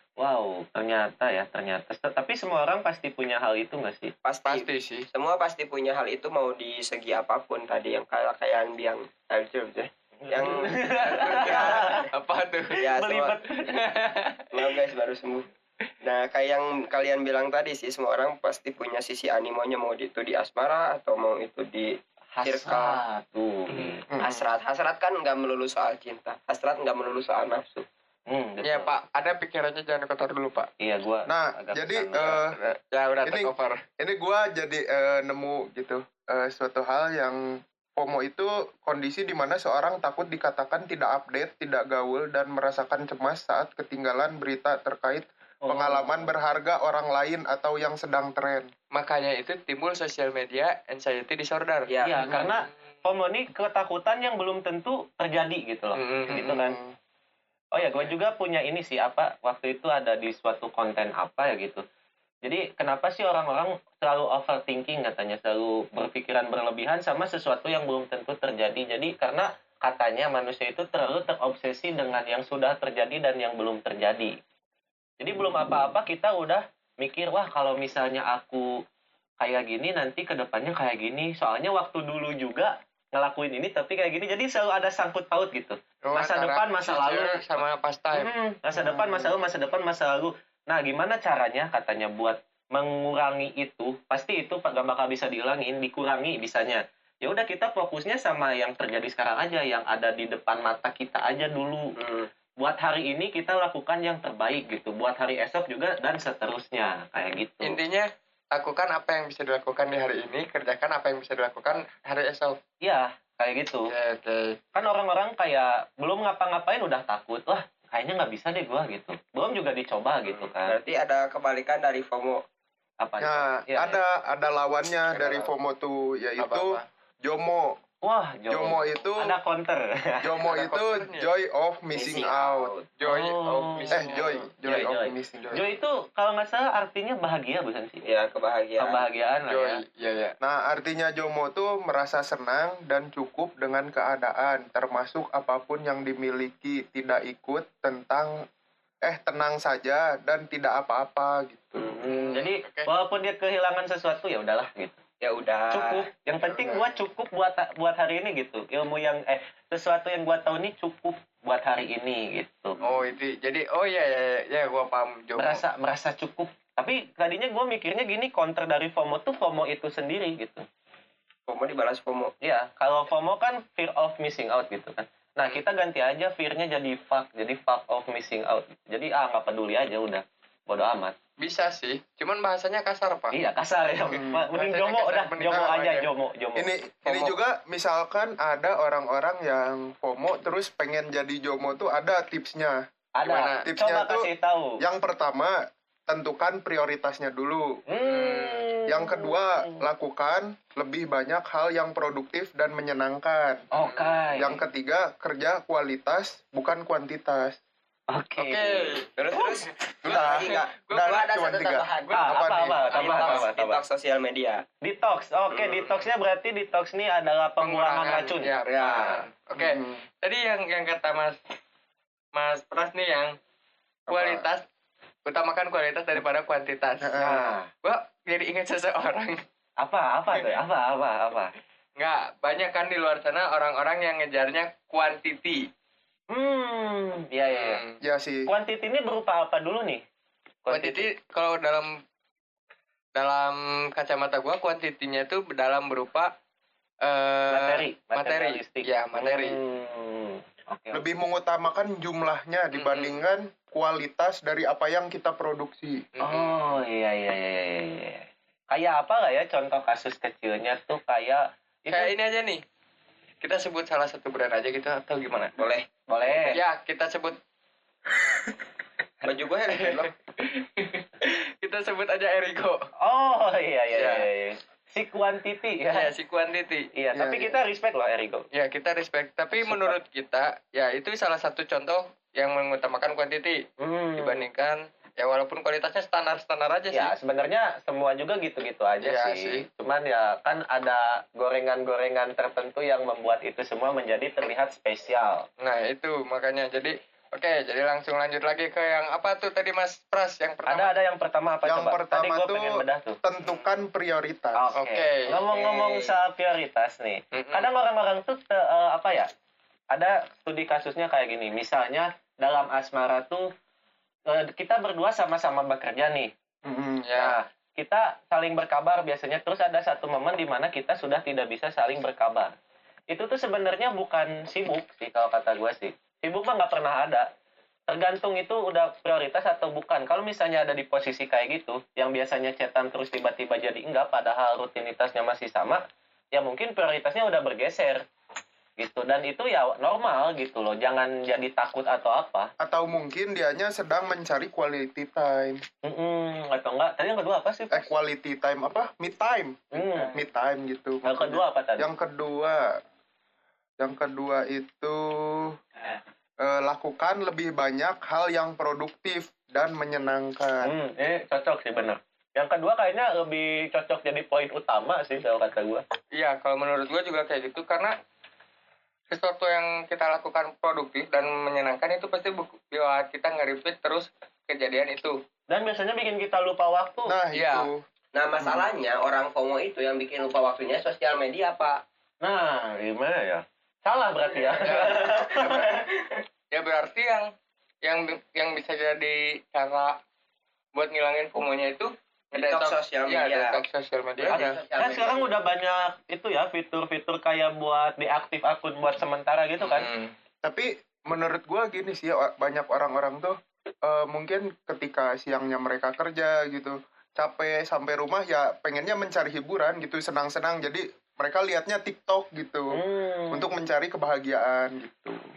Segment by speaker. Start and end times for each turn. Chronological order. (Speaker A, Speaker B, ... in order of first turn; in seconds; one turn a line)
Speaker A: 0.2-4.1
Speaker B: 4.2-12.1
Speaker C: 4.5-5.0
Speaker A: 10.2-12.1
Speaker C: 11.1-12.8
Speaker B: 12.7-13.3
Speaker A: 12.9-13.7
Speaker C: 13.7-14.4
Speaker B: 14.5-15.4
Speaker B: 16.0-23.0
Speaker A: 22.3-24.0
Speaker C: 23.7-24.0
Speaker D: 24.1-24.5
Speaker B: 24.2-27.8
Speaker A: 28.3-28.9
Speaker C: 28.6-30.7
Speaker A: 30.8-32.4
Speaker D: 31.3-32.5
Speaker C: 32.5-33.8
Speaker D: 33.2-37.4
Speaker D: 38.0-48.7
Speaker A: 45.6-46.3
Speaker C: 48.9-52.7
Speaker B: 51.9-52.3
Speaker A: 52.0-56.8
Speaker C: 56.0-56.7
Speaker D: 56.5-56.9
Speaker A: 57.7-61.8
Speaker C: 57.8-58.1
Speaker A: 62.4-74.3
Speaker A: 75.2-78.7
Speaker A: 79.4-87.4
Speaker C: 86.0-88.3
Speaker A: 88.1-101.9
Speaker D: 88.7-89.3
Speaker B: 102.0-102.3
Speaker A: 102.6-107.8
Speaker C: 107.6-112.6
Speaker A: 112.8-113.9
Speaker C: 113.9-114.6
Speaker A: 114.7-120.8
Speaker B: 120.3-122.4
Speaker A: 123.0-124.0
Speaker D: 123.2-127.8
Speaker C: 125.2-125.5
Speaker C: 126.4-126.8
Speaker A: 128.0-130.2
Speaker D: 128.5-129.3
Speaker D: 130.2-132.7
Speaker C: 130.4-131.3
Speaker B: 131.9-132.9
Speaker C: 133.0-134.4
Speaker A: 133.1-138.0
Speaker D: 133.9-135.6
Speaker B: 138.0-139.0
Speaker A: 138.8-139.8
Speaker C: 139.5-140.3
Speaker D: 140.4-148.4
Speaker D: 149.0-151.9
Speaker A: 151.8-155.0
Speaker C: 152.1-152.9
Speaker B: 155.2-156.1
Speaker A: 155.7-162.8
Speaker C: 162.8-165.6
Speaker A: 165.4-170.6
Speaker B: 171.5-172.3
Speaker A: 172.4-181.2
Speaker C: 181.4-183.3
Speaker A: 183.3-186.7
Speaker D: 184.1-184.4
Speaker C: 184.5-186.1
Speaker D: 186.6-192.8
Speaker C: 187.1-187.3
Speaker A: 193.2-194.8
Speaker C: 193.2-193.6
Speaker D: 193.6-197.8
Speaker A: 197.9-199.8
Speaker C: 198.0-198.7
Speaker D: 198.9-203.7
Speaker A: 203.7-204.6
Speaker C: 203.7-204.2
Speaker D: 204.4-207.6
Speaker A: 208.1-209.0
Speaker C: 208.4-209.1
Speaker B: 209.2-214.6
Speaker D: 210.0-212.8
Speaker C: 210.1-211.0
Speaker A: 212.1-213.8
Speaker C: 212.9-213.5
Speaker A: 214.8-219.2
Speaker C: 217.6-221.4
Speaker D: 219.6-220.0
Speaker C: 222.3-223.3
Speaker D: 224.1-224.4
Speaker C: 224.1-224.6
Speaker C: 225.2-229.4
Speaker D: 227.0-227.5
Speaker A: 227.2-227.7
Speaker A: 229.8-231.5
Speaker C: 232.0-235.7
Speaker A: 236.3-237.8
Speaker C: 237.5-238.0
Speaker D: 238.0-238.5
Speaker A: 238.5-240.0
Speaker A: 240.6-241.1
Speaker C: 240.7-242.0
Speaker C: 243.2-246.3
Speaker C: 247.0-249.6
Speaker A: 247.5-251.0
Speaker D: 250.9-256.1
Speaker C: 252.7-253.2
Speaker C: 256.1-256.8
Speaker A: 256.2-262.1
Speaker C: 261.9-262.6
Speaker C: 263.4-265.5
Speaker B: 265.6-265.9
Speaker A: 266.1-266.6
Speaker C: 266.3-267.4
Speaker B: 269.2-270.1
Speaker C: 269.7-272.9
Speaker A: 273.0-276.1
Speaker C: 273.9-274.2
Speaker C: 275.9-276.9
Speaker A: 276.9-278.4
Speaker D: 277.1-277.6
Speaker C: 278.5-283.6
Speaker A: 279.6-279.9
Speaker A: 283.8-284.4
Speaker C: 284.2-287.1
Speaker A: 286.9-295.4
Speaker C: 289.0-289.6
Speaker C: 295.6-300.9
Speaker A: 300.7-303.2
Speaker D: 301.6-304.6
Speaker C: 303.4-303.7
Speaker A: 304.6-309.3
Speaker C: 304.8-305.4
Speaker C: 307.3-307.7
Speaker A: 309.9-313.5
Speaker A: 314.3-316.3
Speaker D: 316.6-317.1
Speaker C: 317.0-317.4
Speaker A: 317.2-322.5
Speaker A: 323.1-327.3
Speaker A: 327.9-338.0
Speaker A: 338.8-342.5
Speaker D: 342.6-345.6
Speaker A: 345.8-347.9
Speaker D: 347.7-352.6
Speaker A: 349.7-350.1
Speaker A: 351.0-351.9
Speaker D: 353.8-355.6
Speaker D: 356.4-360.7
Speaker A: 360.6-365.8
Speaker C: 366.1-367.9
Speaker C: 369.1-375.2
Speaker A: 375.5-377.1
Speaker D: 377.1-377.8
Speaker C: 377.3-377.7
Speaker B: 378.1-381.8
Speaker D: 378.4-378.7
Speaker A: 382.2-385.7
Speaker C: 384.6-385.0
Speaker B: 384.9-386.2
Speaker C: 386.5-387.3
Speaker C: 387.8-390.0
Speaker C: 390.7-394.4
Speaker B: 392.3-393.6
Speaker B: 394.2-395.3
Speaker A: 394.3-399.9
Speaker C: 399.6-400.1
Speaker D: 400.4-412.8
Speaker A: 412.7-413.5
Speaker D: 413.3-415.2